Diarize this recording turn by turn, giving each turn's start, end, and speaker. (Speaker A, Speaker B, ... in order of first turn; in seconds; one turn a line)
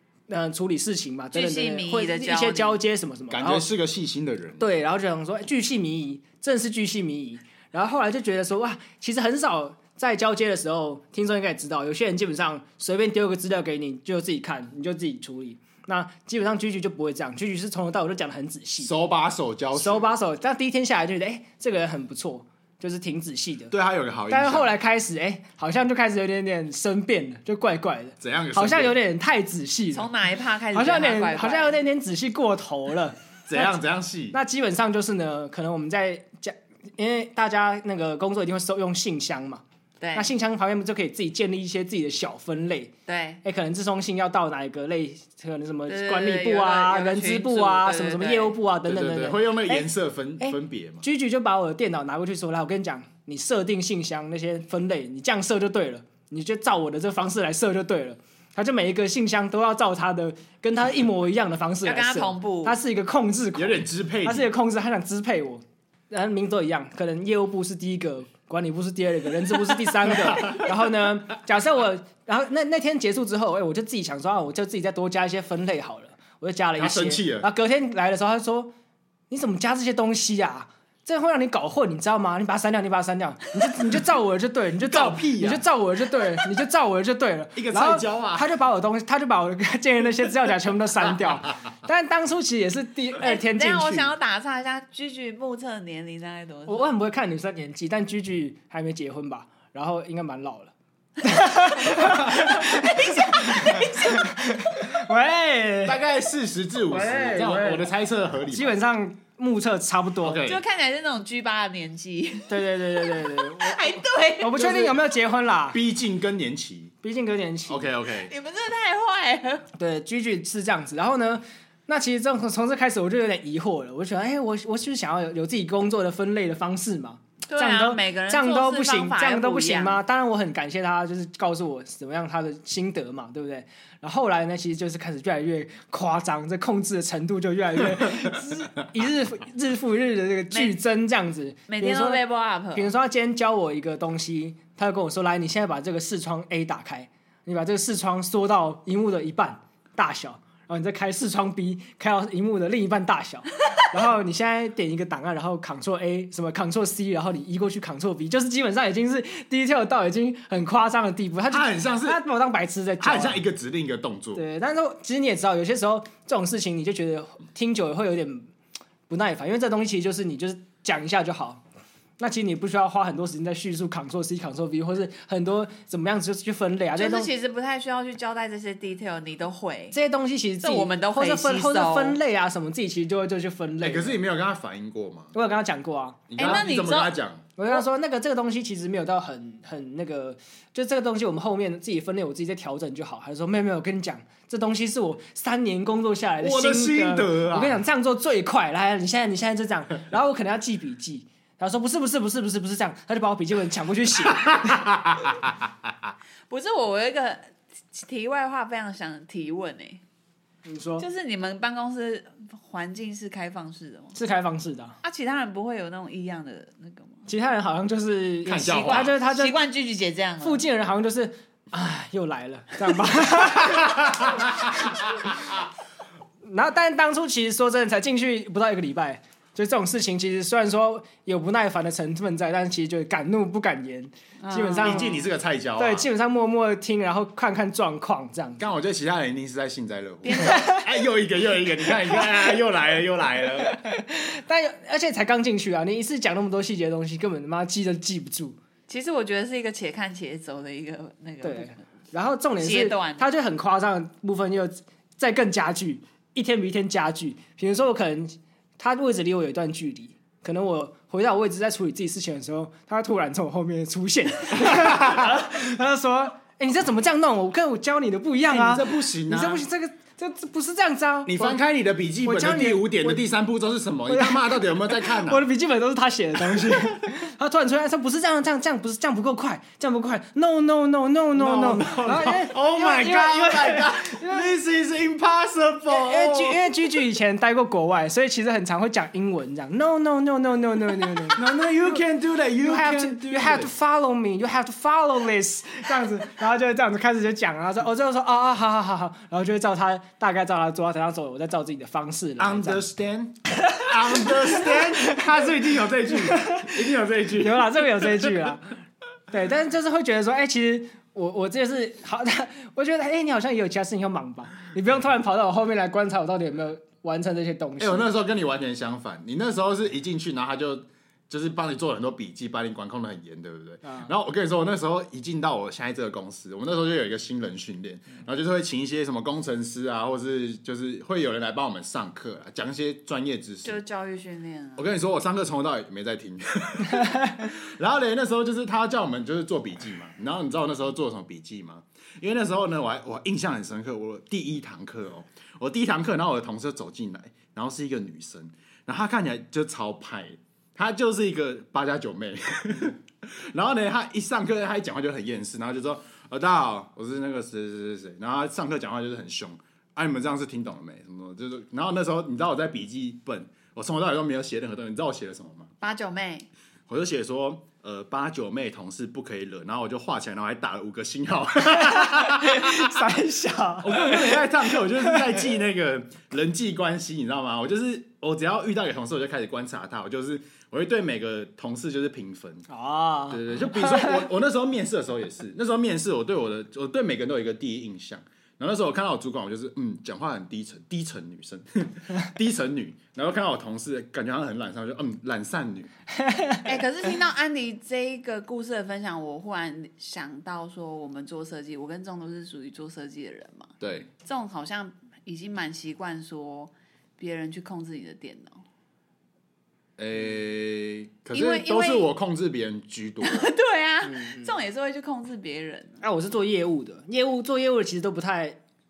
Speaker A: 0.3-3.7
Speaker B: 1.3-2.8
Speaker C: 3.3-4.7
Speaker A: 4.6-18.9
Speaker C: 18.8-20.1
Speaker A: 19.7-23.7
Speaker C: 23.7-24.7
Speaker A: 24.3-30.1
Speaker C: 28.2-29.0
Speaker B: 29.9-31.8
Speaker A: 30.7-33.8
Speaker C: 33.5-34.4
Speaker A: 34.3-39.6
Speaker B: 40.0-40.3
Speaker A: 40.1-42.9
Speaker B: 43.1-43.4
Speaker A: 43.4-49.9
Speaker B: 45.9-48.5
Speaker C: 48.8-51.0
Speaker A: 50.4-78.7
Speaker B: 61.8-62.8
Speaker C: 63.5-64.5
Speaker C: 70.2-70.6
Speaker C: 76.8-77.5
Speaker A: 79.3-94.1
Speaker C: 84.8-85.6
Speaker C: 87.6-88.5
Speaker B: 93.2-96.9
Speaker A: 96.7-106.0
Speaker B: 102.0-104.8
Speaker C: 105.8-108.8
Speaker A: 106.9-107.9
Speaker A: 108.5-110.4
Speaker C: 110.2-110.6
Speaker B: 110.4-114.6
Speaker A: 112.5-115.8
Speaker C: 114.6-115.0
Speaker C: 115.7-116.9
Speaker A: 117.0-117.8
Speaker C: 117.7-118.3
Speaker B: 118.2-119.7
Speaker A: 119.8-142.2
Speaker B: 127.5-130.0
Speaker B: 140.5-140.8
Speaker B: 141.7-142.9
Speaker A: 142.7-163.4
Speaker C: 161.5-162.2
Speaker C: 163.0-164.4
Speaker A: 164.3-168.5
Speaker A: 169.1-171.6
Speaker A: 172.2-177.3
Speaker B: 176.9-180.0
Speaker A: 179.9-184.2
Speaker B: 180.6-182.2
Speaker C: 183.8-185.3
Speaker A: 185.3-186.6
Speaker C: 186.3-187.5
Speaker B: 186.4-187.1
Speaker A: 187.6-204.9
Speaker C: 196.4-197.8
Speaker C: 204.9-205.5
Speaker B: 206.5-210.0
Speaker A: 210.6-211.1
Speaker B: 211.0-214.1
Speaker A: 214.1-214.9
Speaker B: 215.0-217.2
Speaker A: 217.3-219.6
Speaker C: 218.4-219.1
Speaker B: 218.5-220.6
Speaker A: 220.4-224.0
Speaker C: 223.4-225.3
Speaker A: 226.4-235.1
Speaker B: 234.4-235.2
Speaker C: 234.8-236.1
Speaker A: 235.8-238.6
Speaker C: 238.6-243.8
Speaker B: 240.2-240.8
Speaker A: 243.8-248.6
Speaker B: 248.9-251.8
Speaker A: 251.4-271.6
Speaker B: 252.6-253.3
Speaker C: 264.6-265.4
Speaker C: 268.5-269.6
Speaker C: 271.3-275.5
Speaker A: 272.2-273.2
Speaker A: 274.1-284.5
Speaker C: 276.5-276.9
Speaker C: 281.3-286.7
Speaker A: 285.9-291.4
Speaker C: 291.3-293.7
Speaker A: 292.6-302.8
Speaker C: 302.4-308.4
Speaker A: 306.3-306.7
Speaker A: 307.4-308.7
Speaker A: 309.3-318.1
Speaker C: 317.8-333.8
Speaker A: 323.8-324.1
Speaker B: 333.6-334.9
Speaker C: 334.8-365.7
Speaker B: 365.8-366.5
Speaker C: 366.9-373.0
Speaker A: 371.8-374.4
Speaker C: 373.8-382.7
Speaker A: 382.7-384.2
Speaker C: 383.3-395.9
Speaker A: 396.2-396.7
Speaker B: 396.6-408.6
Speaker C: 403.8-404.1
Speaker C: 410.0-413.5
Speaker B: 411.3-412.1
Speaker B: 413.2-416.0
Speaker A: 414.0-414.6
Speaker A: 416.0-418.6